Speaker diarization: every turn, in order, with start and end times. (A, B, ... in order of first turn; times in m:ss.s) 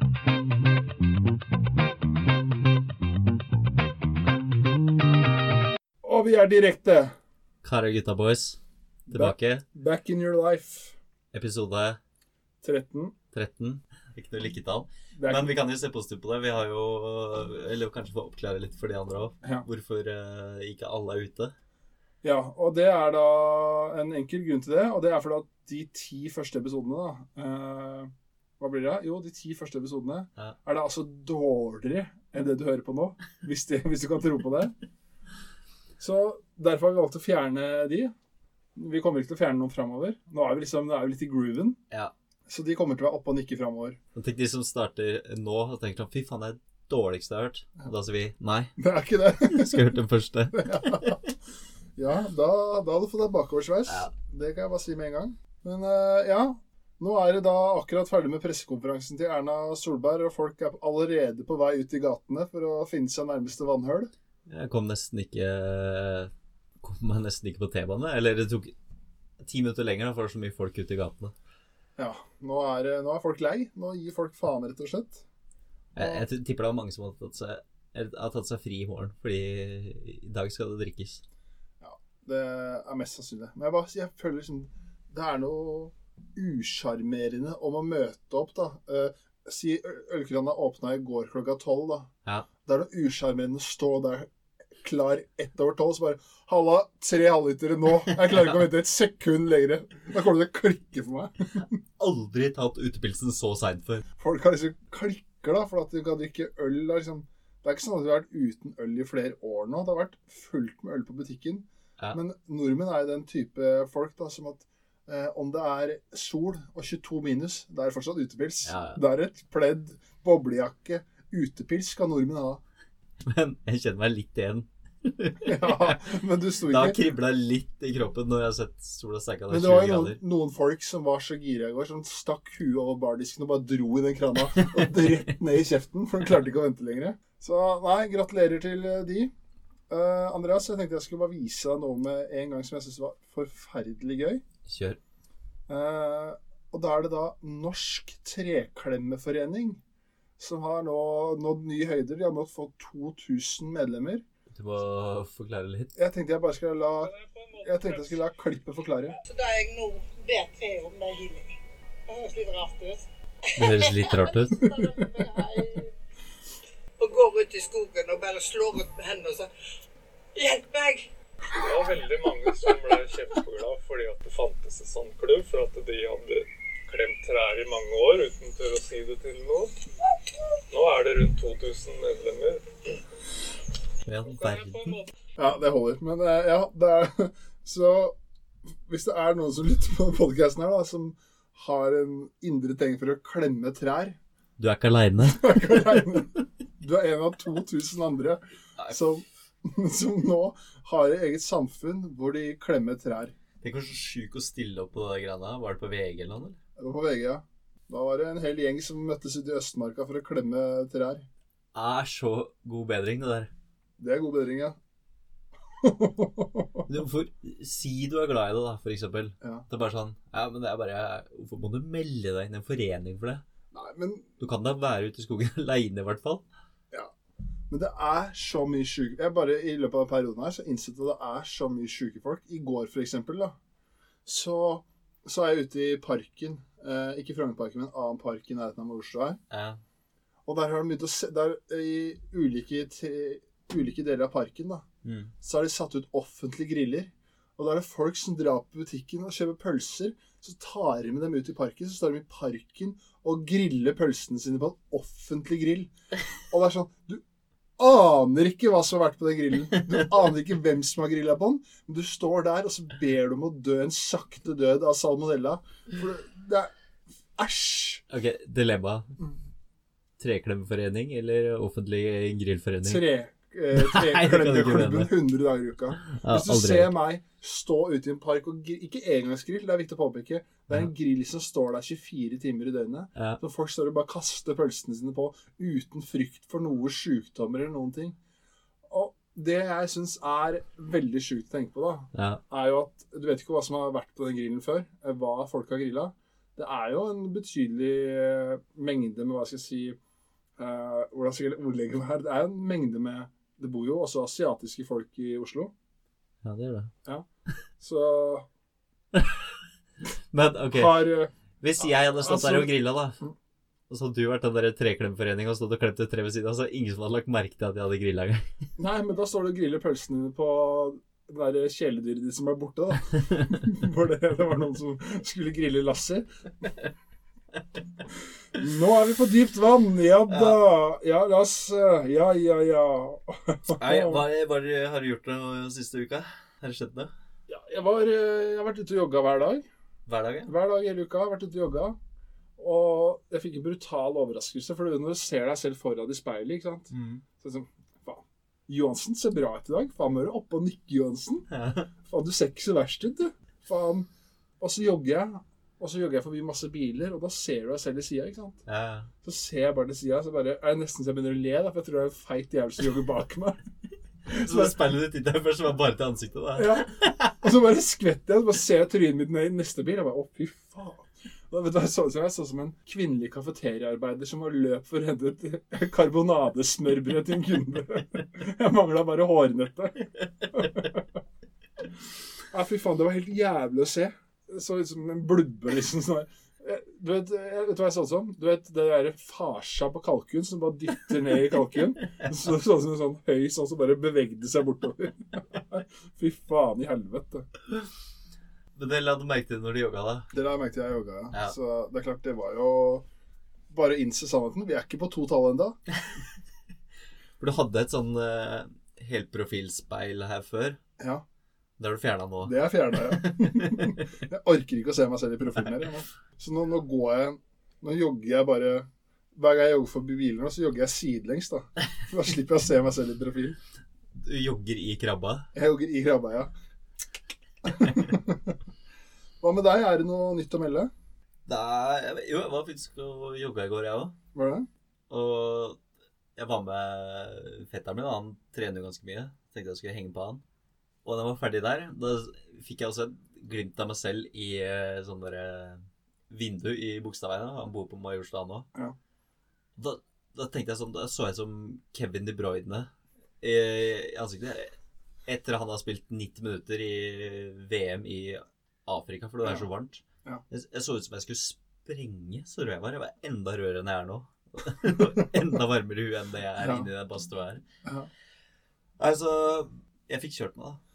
0:06.0-0:07.2 A
0:07.6-0:08.6 B
0:09.1-0:11.0 A
0:09.1-0:09.6 B
0:11.3-0:12.0 B
0:12.6-0:13.2 A
0:13.3-0:21.5 B
0:15.2-0:15.5 A
0:22.2-0:34.7 A
0:36.0-0:38.1 A
0:38.8-0:41.8 A
0:42.5-0:44.0 A
0:44.2-0:48.7 B
0:48.8-0:49.8 A
0:49.4-0:51.2 B
0:50.5-0:51.2 A
0:52.0-1:04.1 A
0:53.9-0:54.1 B
1:04.5-1:08.7 B
1:09.4-1:11.3 B
1:12.0-1:15.2 A
1:16.0-1:21.2 B
1:16.0-1:16.2 A
1:21.8-1:32.1 A
1:32.6-1:34.3 A
1:34.8-1:41.8 A
1:42.0-1:44.0 B
1:44.2-2:02.6 A
1:58.6-1:59.0 B
2:03.2-2:06.0 B
2:05.4-2:07.0 A
2:06.6-2:10.2 B
2:09.5-2:19.3 A
2:19.9-2:24.4 A
2:24.7-2:25.0 B
2:25.7-2:29.8 A
2:30.4-2:34.2 A
2:34.5-2:35.9 B
2:36.0-2:39.2 A
2:37.0-2:38.2 C
2:39.3-2:45.9 D
2:43.6-2:45.0 B
2:47.0-2:49.5 D
2:50.4-2:51.7 D
2:51.5-2:59.8 C
3:00.7-3:02.7 C
3:04.1-3:05.0 B
3:04.3-3:05.1 C
3:05.4-3:08.2 A
3:08.9-3:14.2 A
3:14.6-3:16.0 B
3:15.3-3:23.4 A
3:23.6-3:26.6 B
3:26.8-3:31.3 A
3:31.8-3:33.5 B
3:34.0-3:34.8 A
3:35.8-3:36.8 A
3:36.9-3:43.4 B
3:39.4-3:39.7 A
3:43.7-3:44.3 A
3:44.4-3:46.4 B
3:47.7-3:53.6 A
3:54.2-3:59.4 A
3:59.5-3:59.8 B
4:00.5-4:04.8 A
4:05.0-4:05.3 B
4:05.4-4:15.9 A
4:16.5-4:17.2 A
4:17.8-4:26.7 A
4:27.4-4:28.0 A
4:28.1-4:29.2 B
4:30.2-4:33.0 B
4:32.8-4:48.2 A
4:33.7-4:35.1 B
4:36.1-4:36.9 B
4:48.9-5:00.0 A
4:52.1-4:52.4 B
5:00.6-5:05.7 A
5:06.4-5:06.9 B
5:07.8-5:08.5 A
5:10.3-5:11.1 B
5:10.7-5:13.3 A
5:11.6-5:13.2 B
5:13.9-5:18.6 B
5:18.8-5:26.3 A
5:28.5-5:34.2 A
5:30.3-5:30.6 B
5:33.7-5:37.1 B
5:37.5-5:39.7 A
5:40.1-5:40.5 B
5:40.5-5:42.0 A
5:42.6-5:51.5 A
5:46.9-5:47.2 B
5:51.5-5:51.9 B
5:52.0-5:54.1 A
5:54.6-5:58.6 A
5:58.7-5:59.1 B
5:59.2-6:03.6 A
6:04.3-6:07.3 B
6:04.3-6:04.8 A
6:06.6-6:21.0 A
6:22.5-6:37.5 A
6:38.8-6:40.3 B
6:40.3-6:43.1 A
6:43.7-6:45.8 A
6:47.4-6:50.8 B
6:51.0-6:51.2 A
6:51.8-6:54.0 B
6:52.4-7:03.6 A
7:04.1-7:05.5 B
7:05.5-7:06.5 A
7:07.6-7:08.6 A
7:09.4-7:10.9 A
7:11.5-7:14.2 B
7:14.3-7:14.7 A
7:15.1-7:15.8 B
7:16.4-7:20.4 B
7:21.0-7:28.7 B
7:29.8-7:34.7 B
7:35.3-7:47.6 B
7:46.6-7:46.9 A
7:47.8-7:48.1 A
7:49.0-7:50.8 B